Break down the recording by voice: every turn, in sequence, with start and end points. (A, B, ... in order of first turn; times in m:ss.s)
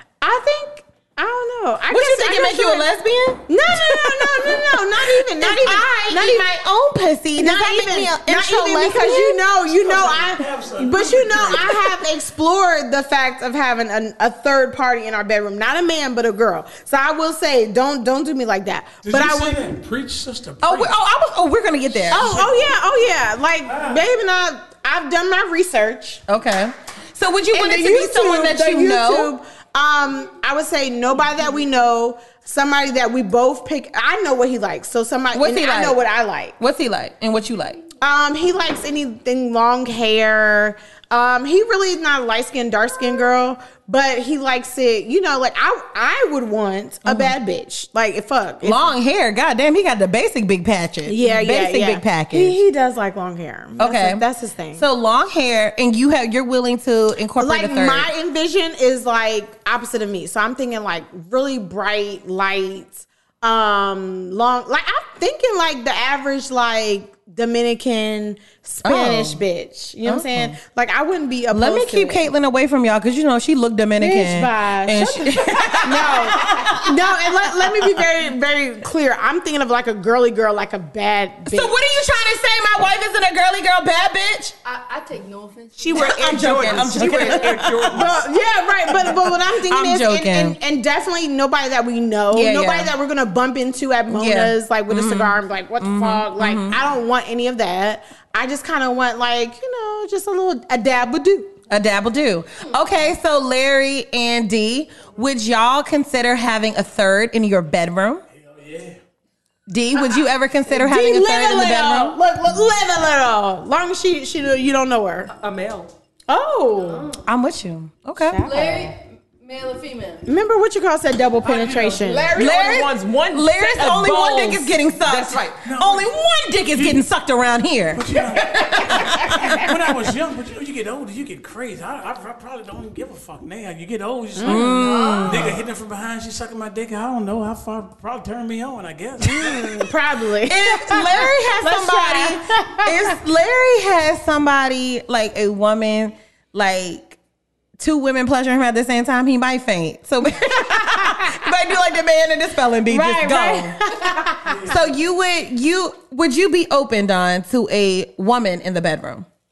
0:00.2-0:02.9 A
0:01.9-0:09.4 B
0:03.5-0:06.4 A
0:07.4-0:19.7 A
0:09.6-0:11.8 C
0:19.0-0:21.0 C
0:20.6-0:22.4 B
0:22.1-0:26.2 A
0:22.1-0:22.7 C
0:23.6-0:24.0 C
0:26.3-0:29.3 B
0:27.5-0:36.5 A
0:35.3-0:36.0 B
0:36.6-0:37.8 B
0:38.0-0:48.9 A
0:47.0-0:47.3 B
0:48.6-0:52.6 B
0:51.0-0:54.8 A
0:53.8-0:54.2 B
0:54.7-0:58.1 B
0:57.4-1:12.3 A
1:08.8-1:09.4 B
1:10.0-1:10.6 B
1:11.5-1:18.0 B
1:14.0-1:21.7 A
1:21.5-1:24.5 B
1:24.6-1:27.4 D
1:25.8-1:28.2 E
1:26.0-1:28.1 B
1:27.0-1:27.3 A
1:27.8-1:41.5 A
1:29.0-1:30.6 B
1:32.3-1:32.9 B
1:34.1-1:36.8 B
1:41.7-1:48.2 B
1:48.3-1:49.0 C
1:49.7-1:52.2 B
1:49.9-1:55.3 A
1:55.3-1:55.9 E
1:56.3-1:57.1 A
1:56.8-1:57.2 D
1:57.2-1:58.4 B
1:58.3-1:58.9 A
1:58.4-2:00.2 D
2:00.2-2:02.3 A
2:01.4-2:01.9 C
2:01.5-2:05.6 E
2:02.3-2:08.1 B
2:05.6-2:06.1 C
2:06.7-2:07.0 C
2:07.9-2:19.9 C
2:08.7-2:09.5 B
2:09.1-2:09.5 E
2:14.3-2:15.5 A
2:14.4-2:15.5 B
2:19.2-2:23.2 A
2:20.4-2:27.2 B
2:27.8-2:33.8 B
2:30.7-2:31.4 A
2:32.9-2:34.6 A
2:34.4-2:35.0 C
2:34.7-2:39.2 B